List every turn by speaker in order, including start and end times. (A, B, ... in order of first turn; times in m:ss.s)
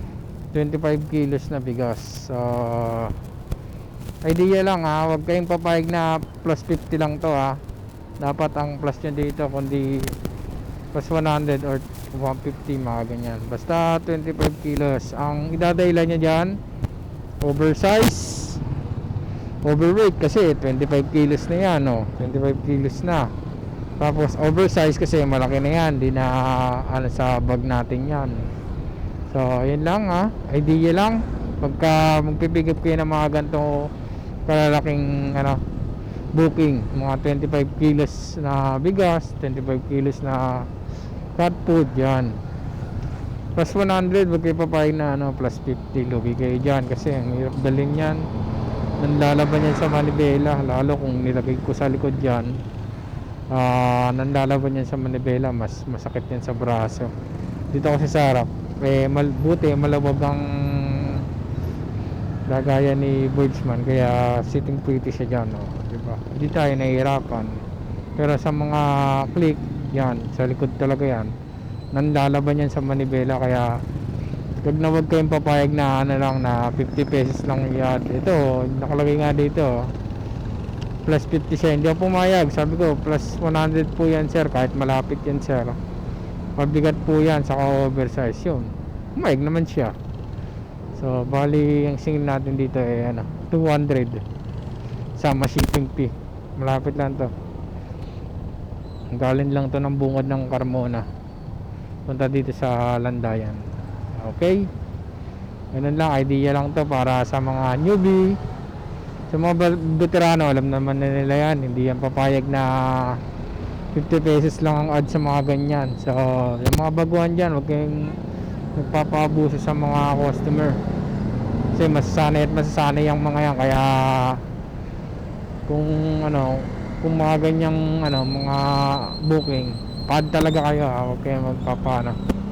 0:00.5-0:03.2 A
0:04.2-0:07.6 A
0:08.2-0:10.2 A
0:10.9-0:16.6 A
0:17.4-0:18.6 A
0:19.6-0:23.3 A
0:24.0-0:28.5 A
0:29.3-0:33.9 A
0:34.4-0:35.6 A
0:36.3-0:40.7 A
0:41.3-0:42.3 A
0:43.5-0:48.2 A
0:49.0-0:52.5 A
0:53.5-0:57.1 A
0:57.7-1:01.2 A
1:02.5-1:07.6 A
1:08.2-1:11.3 A
1:11.9-1:13.7 A
1:14.6-1:19.9 A
1:21.0-1:25.8 A
1:26.6-1:29.9 A
1:31.0-1:34.2 A
1:35.2-1:37.3 A
1:39.1-1:41.0 A
1:42.1-1:43.6 A
1:44.2-1:44.7 A
1:45.7-1:48.4 A
1:49.3-1:53.2 A
1:53.9-1:58.2 A
1:58.8-2:00.8 A
2:01.7-2:04.4 A
2:05.7-2:12.2 A